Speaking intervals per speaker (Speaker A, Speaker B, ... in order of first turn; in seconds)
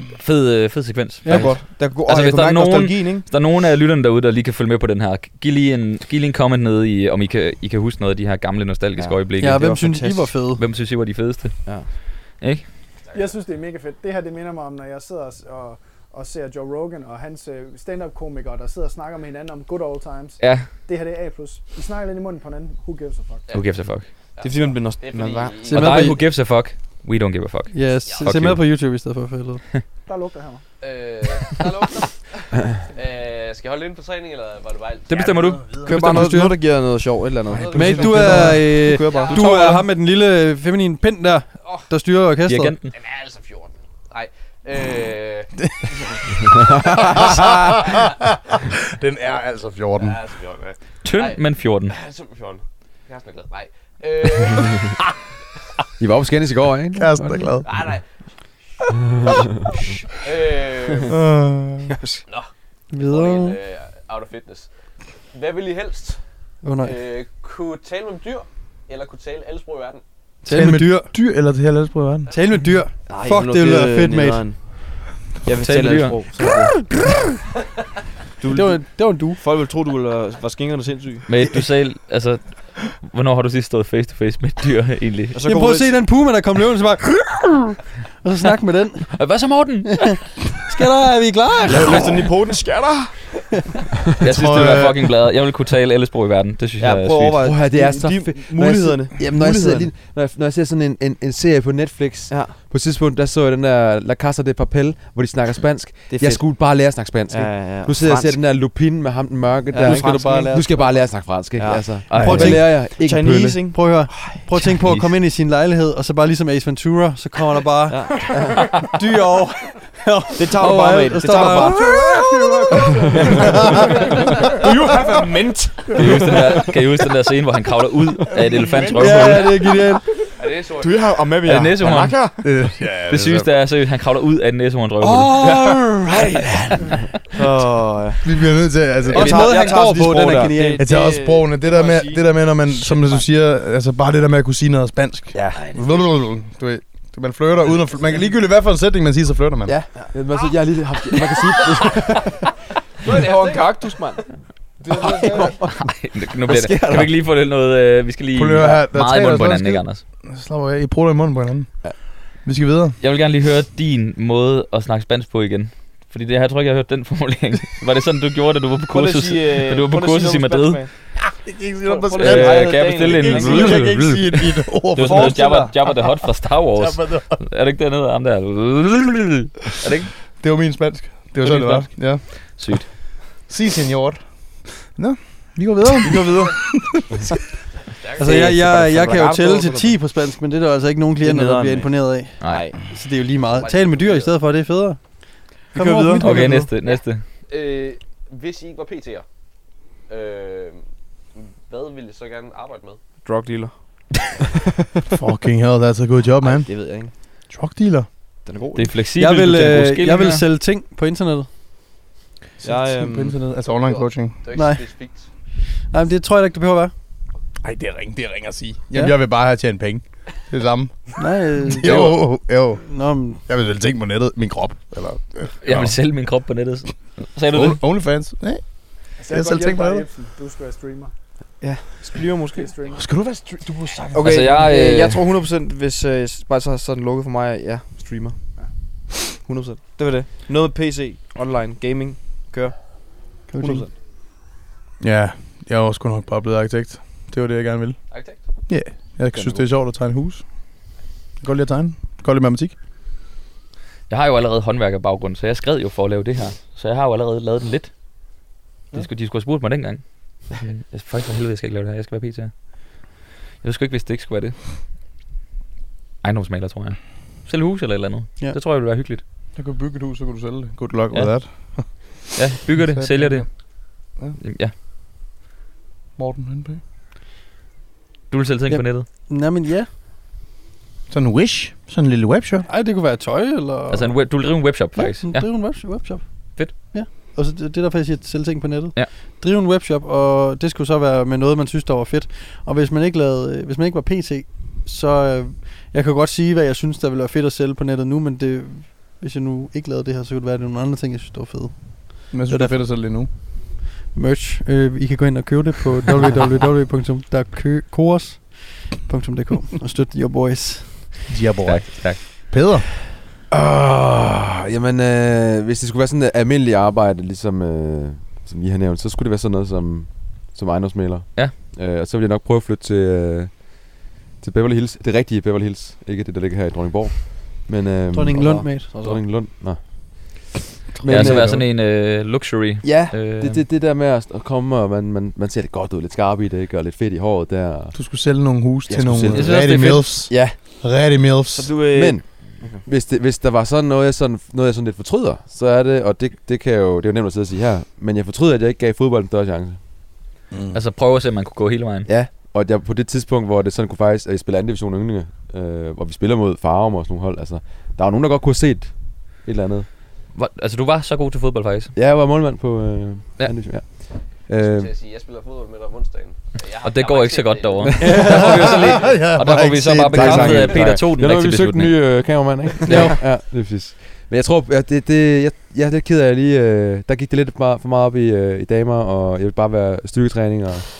Speaker A: 0.1-9.7, 10.5-12.6, 20.4-20.7, 23.5-24.1, 25.7-28.6, 35.1-35.8, 39.3-39.6, 42.5-42.9, 51.0-51.9, 75.6-76.2, 81.3-85.4, 89.2-90.5, 94.2-97.4, 112.1-112.7, 125.9-129.5, 131.4-132.4, 133.1-135.4, 155.6-160.0, 163.0-170.9, 172.1-180.2, 181.4-182.9, 192.4-192.7, 196.2-197.2, 208.7-210.4, 225.6-227.8, 234.2-235.2, 254.1-257.9, 258.9-264.6, 266.2-269.2, 271.1-274.7, 278.3-279.1, 283.9-286.7, 311.6-312.6, 331.0-333.6, 350.7-352.1, 360.3-361.9, 366.8-372.1
Speaker B: 1.2-1.6, 9.4-10.6, 25.6-26.2, 27.7-29.6, 37.7-42.7, 62.9-63.6, 66.6-67.0, 70.4-71.1, 72.3-74.5, 78.5-79.4, 85.4-89.2, 90.6-92.0, 109.8-110.9, 112.2-112.7, 113.7-118.3, 118.9-121.9, 128.9-130.0, 139.1-140.9, 188.2-196.7, 209.2-211.5, 214.5-215.2, 215.9-216.9, 221.2-223.4, 243.5-243.9, 278.7-279.9, 282.7-311.2, 328.1-328.9
Speaker C: 1.3-3.3, 9.0-10.3, 11.6-11.9, 24.4-25.6, 35.8-39.8, 62.0-62.2, 73.0-74.7, 75.4-76.8, 78.4-81.2, 85.3-86.0, 91.7-93.2, 96.8-99.9, 102.3-102.5, 106.1-108.4, 109.7-110.5, 111.5-114.5, 117.9-118.6, 120.4-121.9, 126.0-126.7, 130.8-132.4, 135.3-136.5, 137.3-138.2, 139.0-143.3, 153.0-154.2, 154.9-155.6, 168.9-170.9, 171.8-174.0, 175.0-175.8, 186.0-186.5, 188.2-190.0, 191.2-191.9, 192.4-192.8, 195.7-196.6, 203.2-204.0, 206.4-207.1, 208.4-208.9, 212.6-213.6, 231.6-232.7, 234.1-238.4, 239.4-242.8, 243.6-243.9, 249.3-249.7, 328.4-329.2, 339.3-340.1, 341.5-342.8, 370.1-370.6
Speaker D: 13.1-23.5, 30.1-30.6, 121.5-125.2, 229.2-231.1, 232.5-233.1
Speaker E: 23.5-26.1, 28.0-28.4, 30.8-35.6, 37.5-38.3, 38.9-39.4, 42.9-46.2, 46.8-47.5, 50.0-55.0, 57.6-58.0, 60.2-61.1, 62.3-64.7, 65.3-66.2, 66.8-70.0, 130.4-131.1, 150.3-150.7, 151.2-151.9, 153.0-154.1, 187.8-188.6, 193.4-194.3, 196.8-199.2, 200.1-200.8, 201.3-203.0, 213.8-215.3, 248.1-248.6, 364.6-369.2
Speaker F: 35.6-35.9, 37.5-38.6, 46.9-48.1, 48.9-50.2, 57.0-57.7, 61.1-61.9, 70.4-72.3, 94.2-95.1, 123.2-123.8, 124.6-125.3, 128.4-129.4, 132.4-133.5, 138.2-149.8, 154.9-155.4, 158.3-162.9, 171.2-175.9, 176.7-177.4, 180.4-187.3, 205.1-206.9, 207.5-208.1, 212.6-214.4, 217.6-222.9, 223.4-226.0, 227.5-230.0, 232.9-234.7, 245.0-248.0, 248.6-250.8, 251.4-252.7, 269.6-272.4, 272.9-273.5, 276.2-276.8, 281.1-282.7, 302.3-303.3, 311.3-312.9, 331.0-331.4, 337.9-341.8, 350.5-350.8, 368.0-370.1
Speaker G: 35.9-36.5, 37.9-38.6, 56.0-57.5, 97.4-113.7, 149.6-152.4, 156.5-157.1, 313.5-331.7, 332.8-337.9, 338.9-339.7, 340.3-340.6, 341.9-349.8, 352.1-359.9, 361.9-364.9, 369.9-380.9